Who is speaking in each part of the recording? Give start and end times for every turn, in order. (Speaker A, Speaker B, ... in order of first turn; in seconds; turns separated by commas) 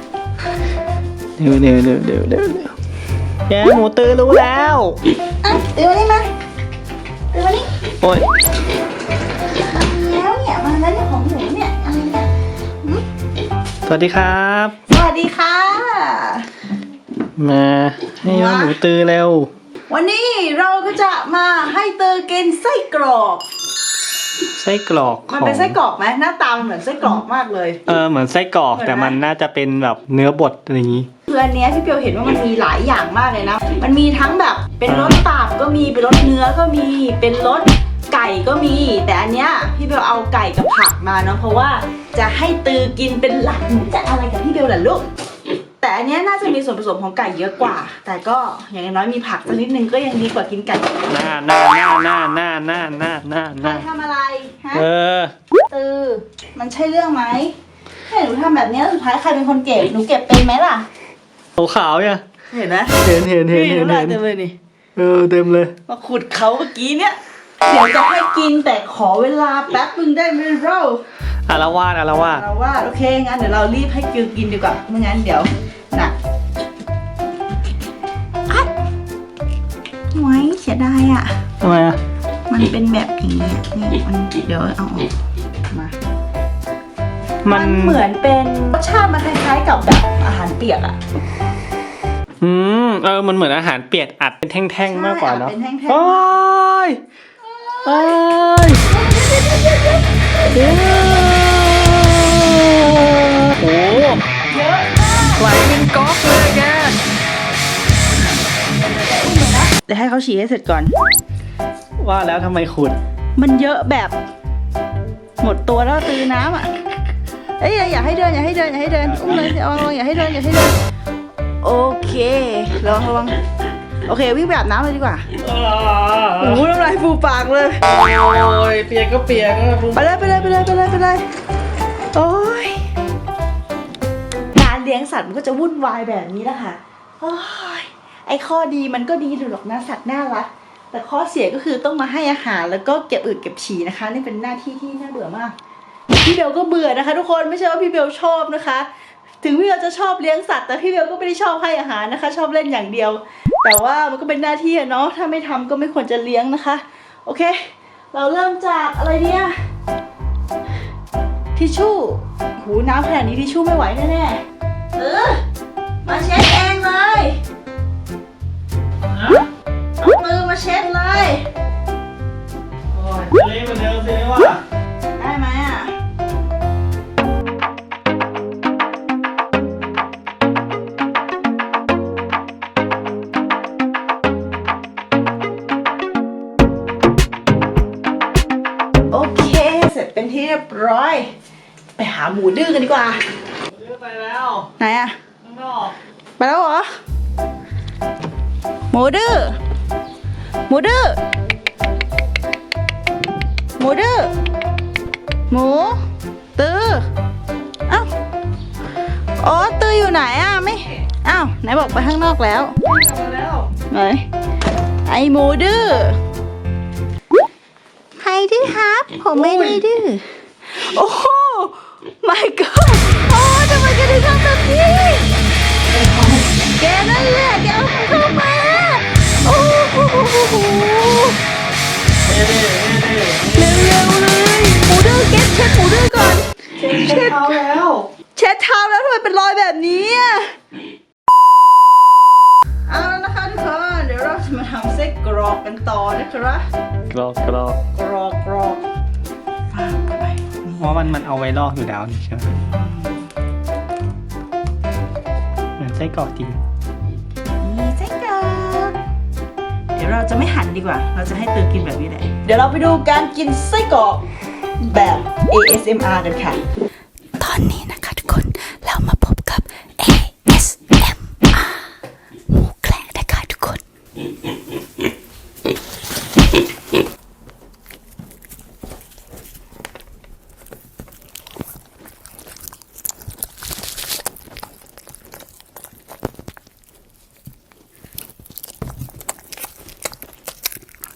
Speaker A: 1.4-2.7, Speaker A: 3.5-5.0, Speaker B: 5.4-6.3, Speaker B: 7.3-7.7, Speaker A: 8.0-8.3, Speaker B: 9.6-12.3, Speaker A: 13.9-14.8, Speaker B: 14.9-16.5, Speaker A: 17.4-19.5, Speaker B: 18.2-18.8, Speaker B: 19.9-23.4, Speaker A: 24.6-25.8, Speaker B: 25.3-27.8, Speaker A: 27.9-31.1, Speaker B: 28.7-29.2, Speaker B: 31.3-45.1, Speaker A: 34.9-35.2, Speaker B: 45.8-51.1, Speaker A: 51.1-53.9, Speaker B: 53.6-54.9, Speaker A: 54.7-55.3, Speaker B: 55.7-57.5, Speaker B: 58.1-60.9, Speaker A: 61.6-62.2, Speaker B: 62.5-64.6, Speaker A: 63.0-64.2, Speaker A: 65.0-65.7, Speaker B: 65.9-71.0, Speaker A: 71.5-72.4, Speaker B: 72.3-76.2, Speaker B: 80.1-81.4, Speaker A: 81.6-82.0, Speaker B: 82.5-85.1, Speaker A: 87.4-88.0, Speaker B: 87.5-91.0, Speaker A: 92.4-97.0, Speaker B: 94.8-96.4, Speaker B: 97.4-98.2, Speaker A: 97.8-98.8, Speaker B: 98.8-100.5, Speaker A: 100.5-104.2, Speaker B: 104.5-105.5, Speaker A: 105.4-107.0, Speaker B: 108.7-110.9, Speaker A: 112.0-113.0, Speaker B: 113.4-114.2, Speaker B: 115.4-116.7, Speaker B: 117.6-120.8, Speaker A: 119.1-119.5, Speaker B: 121.6-123.4, Speaker B: 124.0-125.3, Speaker A: 125.4-126.6, Speaker B: 126.4-127.8, Speaker A: 127.9-130.1, Speaker B: 129.9-131.2, Speaker B: 132.1-132.9, Speaker B: 134.5-145.6, Speaker B: 146.2-148.9, Speaker B: 149.4-159.5, Speaker B: 161.6-164.4, Speaker B: 164.9-165.4, Speaker B: 166.0-167.4, Speaker A: 169.2-169.4, Speaker B: 170.0-171.5, Speaker A: 172.9-174.6, Speaker B: 175.2-175.9, Speaker B: 189.1-191.3, Speaker B: 192.0-193.2, Speaker A: 193.7-194.7, Speaker B: 194.8-195.2, Speaker A: 195.4-196.0, Speaker B: 196.4-196.9, Speaker B: 198.9-199.6, Speaker B: 200.7-201.2, Speaker B: 203.8-204.3, Speaker B: 205.5-206.0, Speaker B: 206.6-207.1, Speaker B: 209.4-212.8, Speaker A: 212.8-213.7, Speaker B: 213.8-214.3, Speaker B: 215.1-216.2, Speaker B: 218.2-225.3, Speaker A: 219.3-219.8, Speaker A: 226.0-226.4, Speaker B: 226.7-231.4, Speaker A: 232.2-233.8, Speaker B: 233.5-237.6, Speaker A: 236.8-238.1, Speaker B: 238.4-240.5, Speaker B: 242.9-246.7, Speaker A: 247.1-247.8, Speaker B: 247.9-248.8, Speaker B: 249.7-250.9, Speaker A: 250.8-252.6, Speaker B: 252.7-253.2, Speaker A: 255.8-256.6, Speaker B: 257.6-259.0, Speaker B: 259.9-264.3, Speaker B: 264.8-266.6, Speaker B: 267.4-271.9, Speaker B: 272.5-273.8